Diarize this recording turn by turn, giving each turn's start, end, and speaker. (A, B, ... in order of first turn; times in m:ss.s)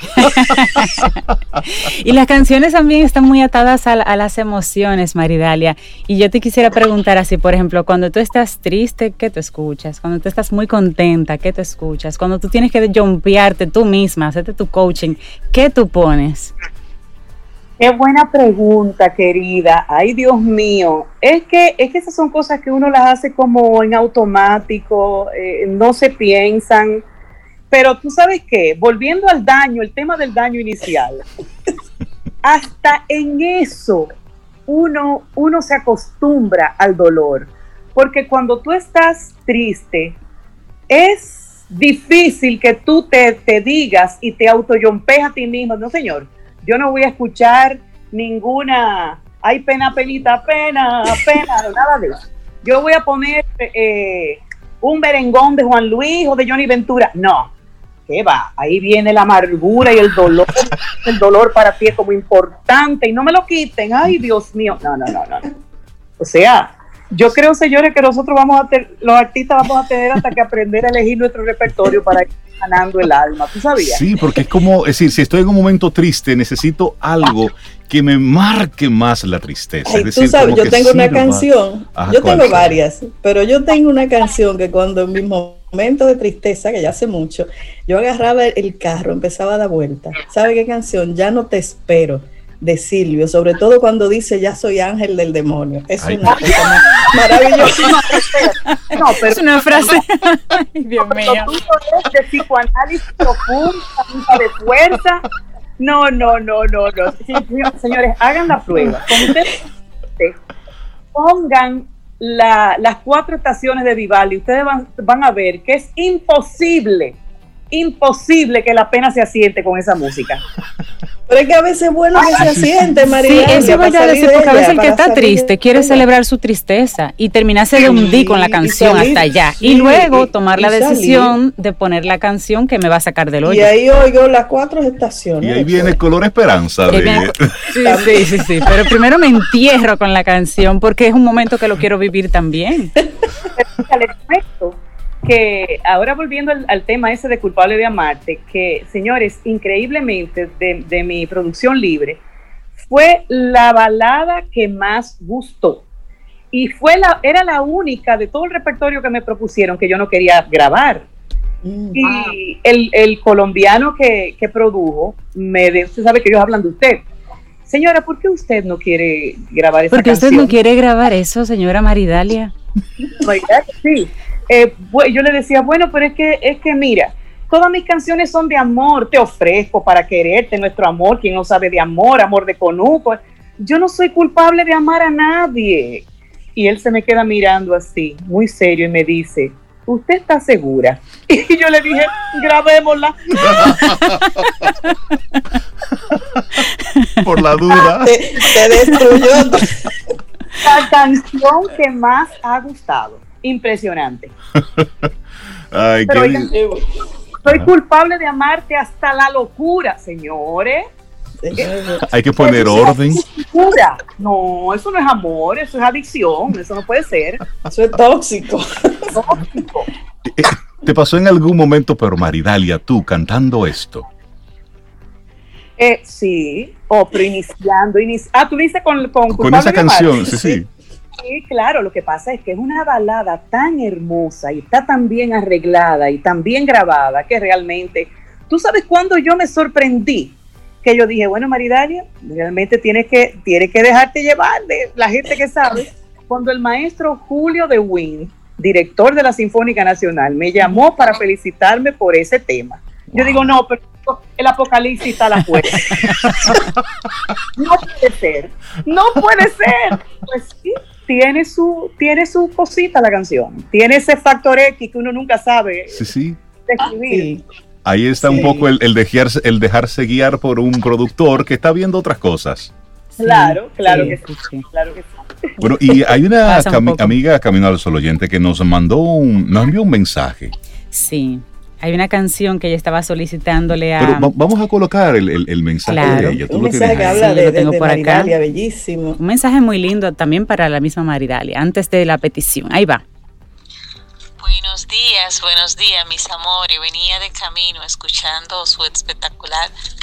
0:00.2-0:16.5 A
0:17.8-0:27.0 B
0:27.7-0:31.2 B
0:32.4-0:34.1 B
0:34.7-0:40.2 B
0:40.9-0:57.5 B
0:58.1-1:05.5 B
1:06.2-1:14.0 B
1:13.8-1:22.8 C
1:19.8-1:38.1 D
1:36.0-1:36.4 C
1:36.3-1:40.0 B
1:39.2-1:41.5 A
1:41.0-1:45.2 B
1:45.8-1:49.6 B
1:51.1-1:57.2 B
1:57.7-2:00.4 B
2:01.3-2:06.0 D
2:02.4-2:02.9 C
2:03.2-2:13.7 A
2:07.7-2:11.4 D
2:13.4-2:16.0 D
2:15.4-2:17.5 C
2:16.9-2:23.0 A
2:17.8-2:18.3 D
2:23.6-2:32.2 B
2:32.8-2:35.8 B
2:36.5-2:41.1 B
2:41.6-2:42.1 D
2:42.0-2:47.0 B
2:47.6-2:50.5 B
2:49.9-2:52.5 A
2:53.2-3:06.0 B
3:06.6-3:13.9 B
3:13.4-3:14.2 C
3:16.3-3:16.6 C
3:17.2-3:18.2 C
3:18.0-3:19.9 D
3:20.6-3:24.3 B
3:24.6-3:24.9 C
3:25.7-3:26.5 C
3:26.1-3:26.5 B
3:26.5-3:26.8 D
3:27.4-3:27.7 C
3:27.4-3:30.8 B
3:31.4-3:32.1 D
3:32.1-3:33.2 C
3:32.4-3:37.4 B
3:37.7-3:39.2 D
3:39.1-3:39.9 B
3:40.2-3:44.0 C
3:45.8-3:50.2 B
3:49.3-3:50.7 C
3:50.3-3:50.6 D
3:51.2-4:16.0 B
4:13.1-4:13.6 C
4:16.1-4:16.6 C
4:17.6-4:26.0 B
4:25.9-4:26.4 C
4:26.6-4:27.3 B
4:27.1-4:27.4 D
4:27.8-4:32.7 C
4:28.2-4:28.7 D
4:33.2-4:34.6 A
4:33.2-4:35.5 B
4:33.8-4:34.2 D
4:35.6-4:40.5 C
4:36.4-4:37.1 A
4:40.9-4:44.3 A
4:44.0-4:47.3 C
4:45.8-4:48.3 A
4:46.0-4:49.2 D
4:49.2-4:53.0 A
4:54.4-4:59.7 E